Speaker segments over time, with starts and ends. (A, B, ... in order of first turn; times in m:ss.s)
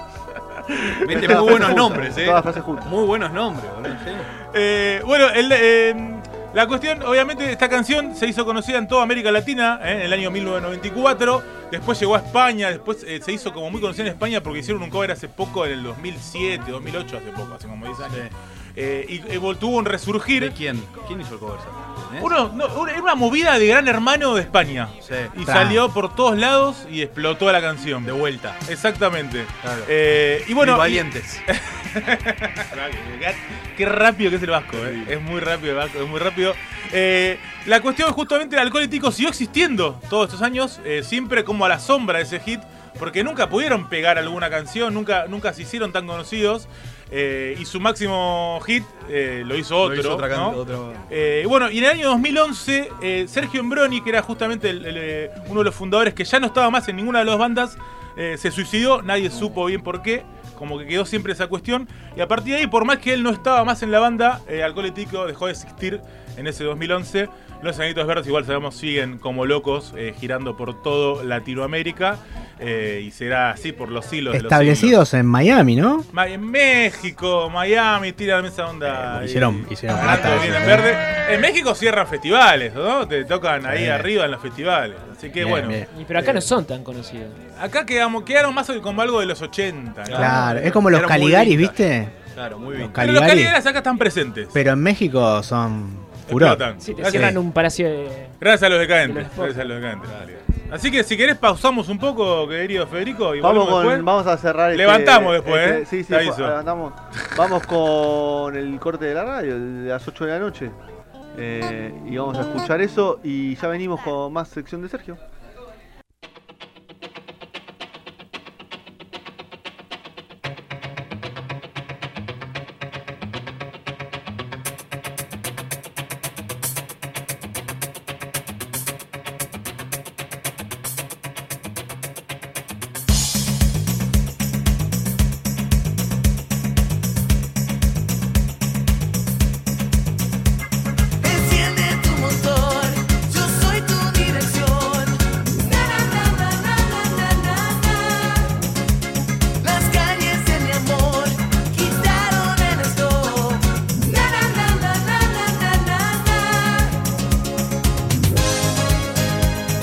0:00.7-0:01.4 A
0:01.0-0:04.3 B
0:01.1-0:02.9 C
0:04.4-0:20.6 A
0:18.0-0:18.3 B
0:20.4-0:22.3 B
0:22.2-1:15.0 A
0:25.0-0:25.3 B
0:25.4-0:25.8 D
0:28.0-0:28.6 B
0:29.6-0:29.9 B
0:30.6-0:31.4 B
0:34.7-0:35.1 B
0:49.8-0:51.1 B
1:14.3-1:16.1 D
1:16.1-1:25.8 A
1:18.9-1:20.9 D
1:23.7-1:24.1 D
1:25.4-1:25.9 D
1:25.9-1:27.4 E
1:26.2-1:26.4 B
1:27.6-1:30.8 A
1:30.1-1:31.8 B
1:30.1-1:32.2 D
1:32.3-1:33.1 B
1:32.8-1:33.6 D
1:33.0-1:34.6 A
1:34.5-1:37.4 D
1:36.3-1:37.4 A
1:36.8-1:38.4 E
1:38.4-1:44.1 A
1:39.0-1:39.7 E
1:40.1-1:40.4 B
1:43.4-1:50.8 C
1:44.7-1:46.6 A
1:51.4-1:55.2 C
2:21.2-2:28.6 F
2:29.6-2:37.0 F